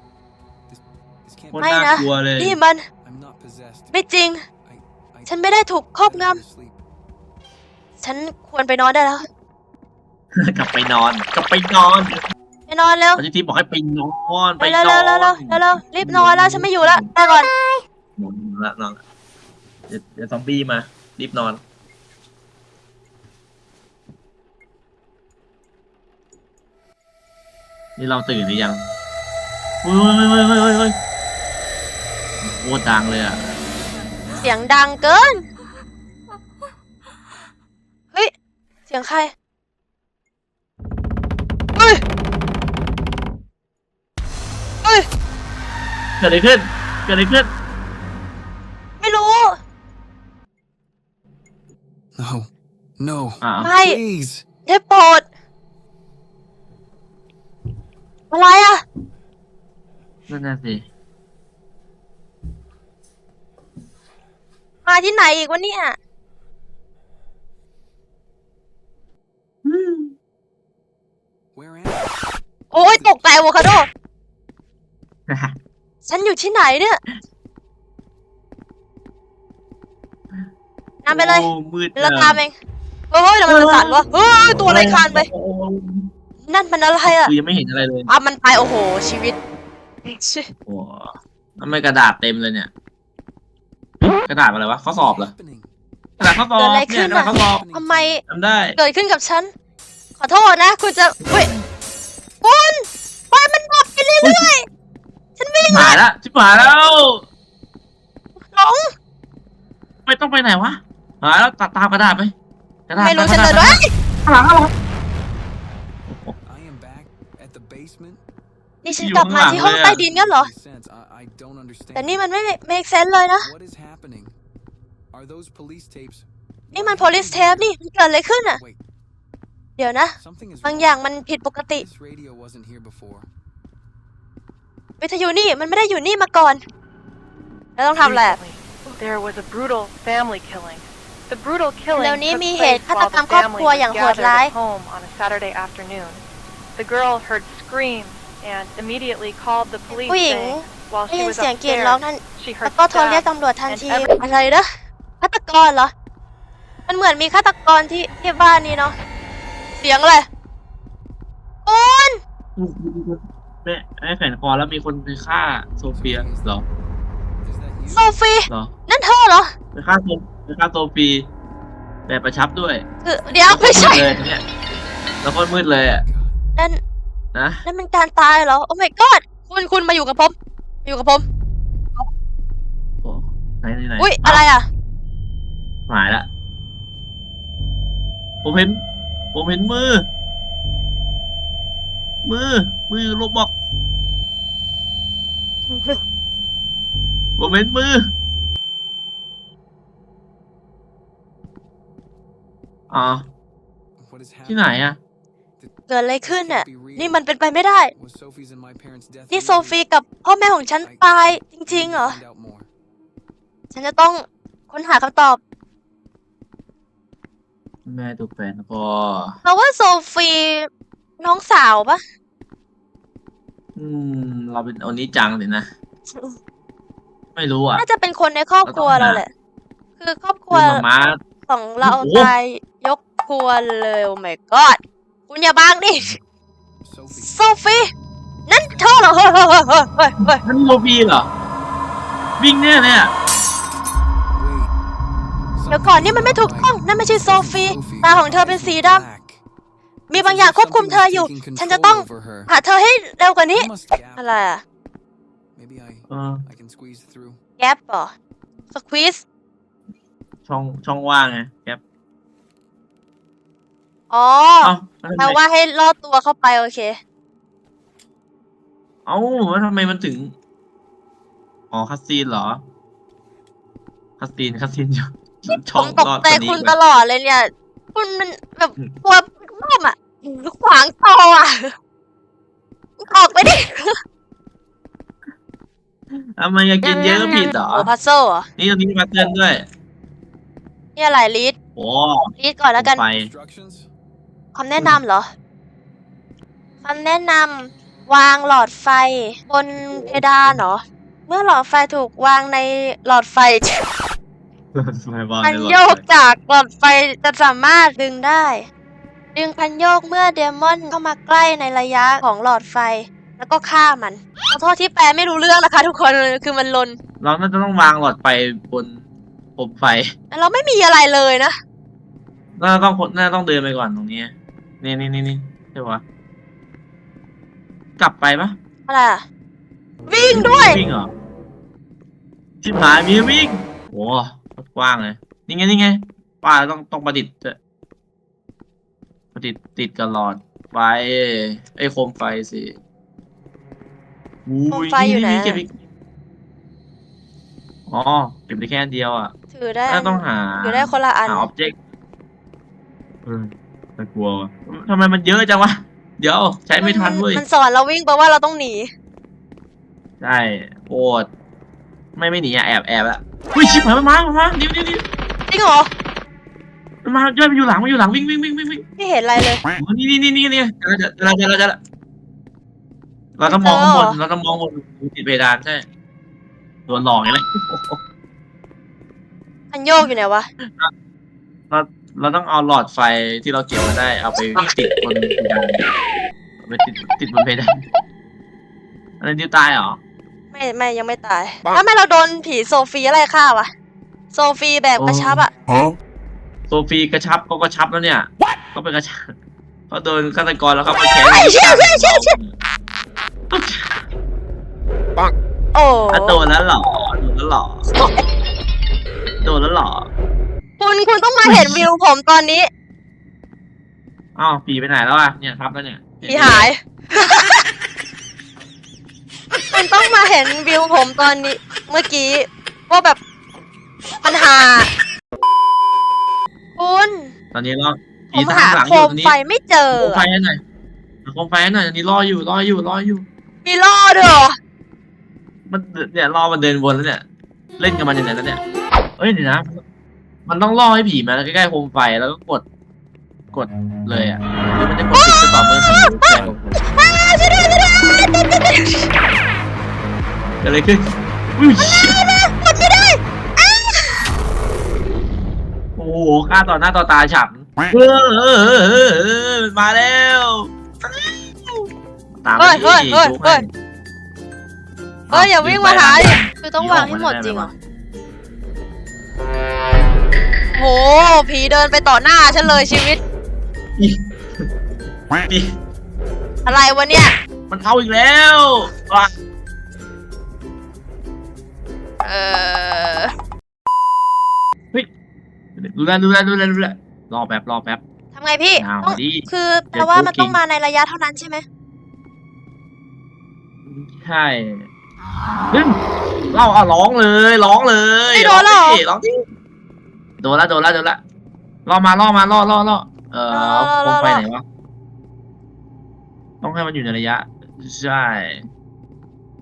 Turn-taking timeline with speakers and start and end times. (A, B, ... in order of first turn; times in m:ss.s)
0:00.7-0:02.1 A
0:01.5-0:02.6 B
0:01.6-0:02.8 C
0:03.0-0:04.0 A
0:03.9-0:04.4 C
0:04.6-0:06.8 A
0:05.3-0:06.4 C
0:08.0-0:09.2 C
0:10.4-0:12.2 B
0:12.7-0:13.2 C
0:13.2-0:17.1 B
0:14.6-0:17.5 C
0:18.2-0:19.0 B
0:19.9-0:21.6 B
0:28.0-0:28.9 B
0:29.8-0:31.0 B
0:32.4-0:33.4 B
0:34.4-0:35.4 C
0:38.9-0:39.3 C
0:41.8-0:42.0 C
0:46.2-0:47.5 B
0:49.0-0:49.6 C
0:52.2-0:54.4 A
0:53.4-0:53.7 B
0:53.6-0:54.0 C
0:54.7-0:55.3 C
0:58.3-0:58.8 C
1:00.3-1:00.8 B
1:04.9-1:06.0 C
1:09.6-1:10.1 B
1:11.5-1:12.2 A
1:12.7-1:13.4 A
1:12.7-1:13.9 C
1:15.3-1:15.6 B
1:16.1-1:17.0 C
1:21.0-1:22.6 C
1:21.1-1:22.4 B
1:23.1-1:25.3 C
1:23.5-1:26.1 B
1:26.5-1:27.3 C
1:27.0-1:28.1 B
1:28.1-1:29.4 C
1:30.0-1:30.5 C
1:30.7-1:32.7 B
1:34.0-1:35.3 B
1:34.9-1:35.7 A
1:36.2-1:37.6 B
1:36.6-1:38.2 C
1:37.0-1:38.2 A
1:38.3-1:38.8 B
1:38.8-1:39.5 C
1:40.2-1:41.5 C
1:41.2-1:41.6 B
1:42.4-1:44.7 C
1:44.2-1:44.5 B
1:45.4-1:46.0 C
1:45.7-1:47.2 B
1:48.4-1:48.9 C
1:50.1-1:52.3 B
1:52.9-1:54.7 B
1:53.0-1:53.9 C
1:56.1-1:56.4 B
1:56.4-1:58.2 A
1:58.8-2:00.5 C
1:58.9-2:00.0 B
1:59.4-2:02.2 A
2:02.0-2:03.5 C
2:03.4-2:04.4 A
2:05.1-2:07.8 A
2:06.7-2:08.6 C
2:09.8-2:11.8 C
2:10.2-2:11.0 A
2:11.7-2:13.3 A
2:15.0-2:16.6 C
2:17.8-2:18.4 C
2:18.0-2:26.2 D
2:21.9-2:24.5 C
2:26.8-2:34.4 D
2:29.9-2:34.7 C
2:35.2-2:35.9 C
2:36.9-2:39.0 C
2:39.8-2:40.3 C
2:41.7-2:42.2 C
2:42.6-2:46.6 B
2:45.9-2:46.6 A
2:47.4-2:48.2 A
2:47.9-2:49.5 C
2:49.7-2:51.3 B
2:52.1-2:52.8 B
2:53.0-2:54.1 C
2:53.5-2:54.4 B
2:55.2-2:56.0 B
2:56.0-2:56.4 A
2:57.3-2:57.6 B
2:57.6-3:01.2 C
3:03.0-3:04.5 B
3:04.0-3:04.7 C
3:05.9-3:06.3 B
3:08.4-3:08.8 B
3:09.3-3:10.1 B
3:12.2-3:13.5 B
3:15.7-3:16.0 C
3:17.4-3:18.1 B
3:22.9-3:23.3 B
3:24.0-3:24.8 A
3:24.5-3:25.0 B
3:25.6-3:27.2 A
3:25.9-3:27.9 C
3:27.9-3:29.8 A
3:29.3-3:32.2 C
3:30.8-3:32.7 A
3:33.7-3:35.4 C
3:37.9-3:39.4 B
3:39.4-3:42.0 C
3:43.8-3:45.7 B
3:46.1-3:46.4 C
3:47.4-3:47.8 B
3:47.8-3:49.3 C
3:48.6-3:49.2 B
3:50.0-3:50.8 C
3:50.5-3:51.2 B
3:51.5-3:56.2 C
3:51.8-3:52.3 B
3:56.8-3:57.4 A
3:57.1-3:57.9 C
3:58.5-4:00.4 C
3:58.6-3:59.1 A
4:00.3-4:01.3 B
4:02.4-4:03.1 B
4:04.3-4:04.7 A
4:05.6-4:09.4 A
4:05.7-4:09.0 C
4:10.1-4:14.6 C
4:10.1-4:12.5 A
4:13.5-4:14.3 A
4:15.6-4:17.4 A
4:16.1-4:16.4 B
4:17.6-4:18.1 C
4:18.7-4:19.2 C
4:20.5-4:21.8 B
4:24.1-4:27.0 C
4:24.6-4:25.4 B
4:29.1-4:30.3 B
4:31.7-4:32.6 B
4:34.2-4:36.8 B
4:35.8-4:41.7 C
4:43.0-4:44.0 C
4:46.4-4:47.9 B
4:46.8-4:48.5 C
4:48.6-4:49.7 B
4:51.0-4:51.6 C
4:51.8-4:53.3 B
4:52.4-4:53.0 C
4:53.1-4:53.9 A
4:54.6-4:55.3 C
4:56.8-5:03.8 C
4:59.8-5:00.6 B
5:04.7-5:06.0 B
5:05.4-5:08.7 C
5:09.4-5:17.0 C
5:17.2-5:19.0 B
5:19.6-5:20.1 B
5:20.3-5:21.6 C
5:22.6-5:26.0 B
5:28.0-5:28.5 B
5:28.9-5:29.2 C
5:30.1-5:30.8 C
5:30.3-5:31.1 B
5:32.6-5:37.6 B
5:39.4-5:42.8 B
5:44.5-5:45.8 B
5:44.7-5:45.6 C
5:47.9-5:49.3 B
5:49.5-5:51.5 C
5:49.9-5:51.8 B
5:53.3-5:57.4 B
5:56.8-5:58.9 C
6:00.2-6:01.3 B
6:02.2-6:05.0 B
6:05.5-6:05.9 C
6:07.0-6:08.8 B
6:09.0-6:09.6 C
6:09.8-6:11.8 B
6:13.4-6:15.9 B
6:13.5-6:14.2 C
6:16.9-6:18.0 B
6:19.7-6:20.5 C
6:20.6-6:20.9 B
6:21.7-6:25.8 B
6:26.6-6:27.8 B
6:29.2-6:30.0 B
6:30.5-6:33.7 C
6:34.3-6:35.5 C
6:35.0-6:35.4 B
6:36.7-6:39.3 B
6:39.9-6:42.6 B
6:41.3-6:42.4 C
6:43.5-6:44.0 B
6:45.7-6:46.4 C
6:46.1-6:47.9 B
6:49.4-6:50.1 B
6:50.8-6:52.7 C
6:51.4-6:51.8 B
6:54.4-6:56.7 B
6:56.2-6:57.7 C
6:59.6-7:03.2 C
7:04.2-7:04.9 C
7:06.8-7:07.3 C
7:07.5-7:09.4 B
7:08.3-7:10.2 C
7:10.0-7:10.6 B
7:11.2-7:13.3 B
7:13.6-7:14.6 C
7:15.7-7:17.2 B
7:17.8-7:18.6 B
7:19.2-7:19.8 B
7:20.5-7:22.6 B
7:23.5-7:26.8 B
7:25.1-7:29.1 C
7:30.6-7:32.2 B
7:32.0-7:34.2 C
7:36.0-7:41.8 B
7:42.4-7:43.7 B
7:42.6-7:43.6 C
7:45.3-7:47.7 B
7:45.3-7:47.7 C
7:50.8-7:53.2 C
7:54.0-7:54.7 B
7:55.5-7:55.8 B
7:56.6-7:57.4 C
7:57.7-7:59.3 B
8:02.2-8:03.3 C
8:05.8-8:08.0 B
8:08.4-8:11.6 C
8:08.8-8:10.6 B
8:13.9-8:14.9 B
8:15.7-8:16.0 B
8:16.5-8:19.4 B
8:18.3-8:19.0 C
8:20.4-8:21.2 B
8:21.9-8:24.6 B
8:23.5-8:24.4 C
8:26.6-8:28.6 B